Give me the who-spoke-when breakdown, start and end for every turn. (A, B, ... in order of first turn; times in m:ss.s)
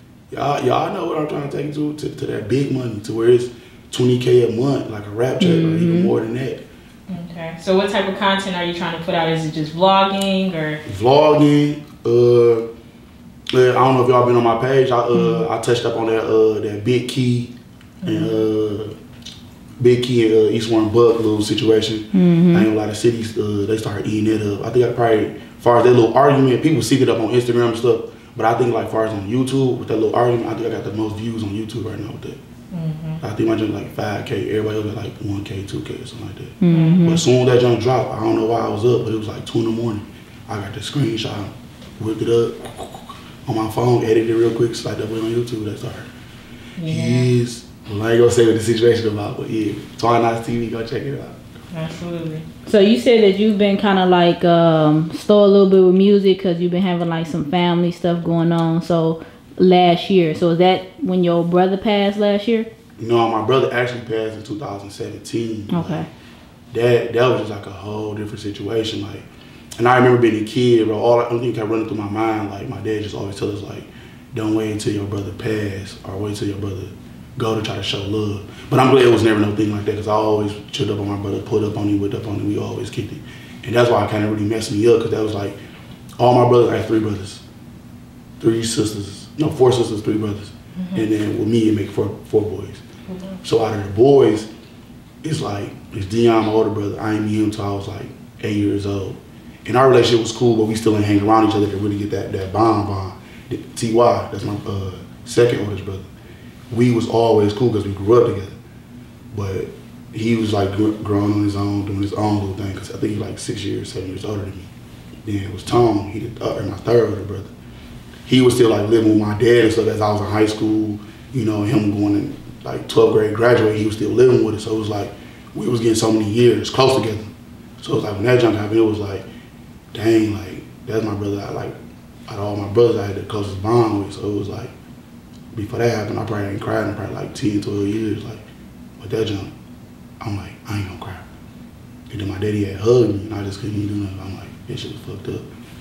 0:00.3-0:06.6 A
0:05.4-0:06.1 B
0:07.1-0:10.8 C
0:10.9-0:12.6 A
0:13.5-0:17.5 A
0:15.1-0:15.4 B
0:18.0-0:18.4 C
0:18.0-0:19.0 A
0:19.8-0:32.4 A
0:22.1-0:22.7 B
0:32.7-0:33.2 C
0:33.2-0:46.1 A
0:36.6-0:37.2 B
0:36.7-0:37.1 C
0:46.8-0:47.3 C
0:46.9-0:51.4 A
0:51.7-0:52.4 C
0:52.6-1:02.7 B
1:03.0-1:06.0 A
1:05.7-1:06.1 B
1:06.7-1:09.3 A
1:09.8-1:25.6 A
1:26.2-1:27.4 A
1:28.4-1:32.8 A
1:30.8-1:31.1 C
1:33.1-1:33.4 C
1:33.4-1:34.5 A
1:35.2-1:46.1 A
1:46.7-1:48.6 A
1:49.3-1:54.7 A
1:55.2-1:57.5 A
1:58.3-2:07.3 A
2:07.8-2:09.2 A
2:09.9-2:11.8 A
2:12.3-2:14.7 A
2:15.5-2:18.4 A
2:19.0-2:19.5 A
2:20.2-2:21.2 A
2:22.1-2:25.4 A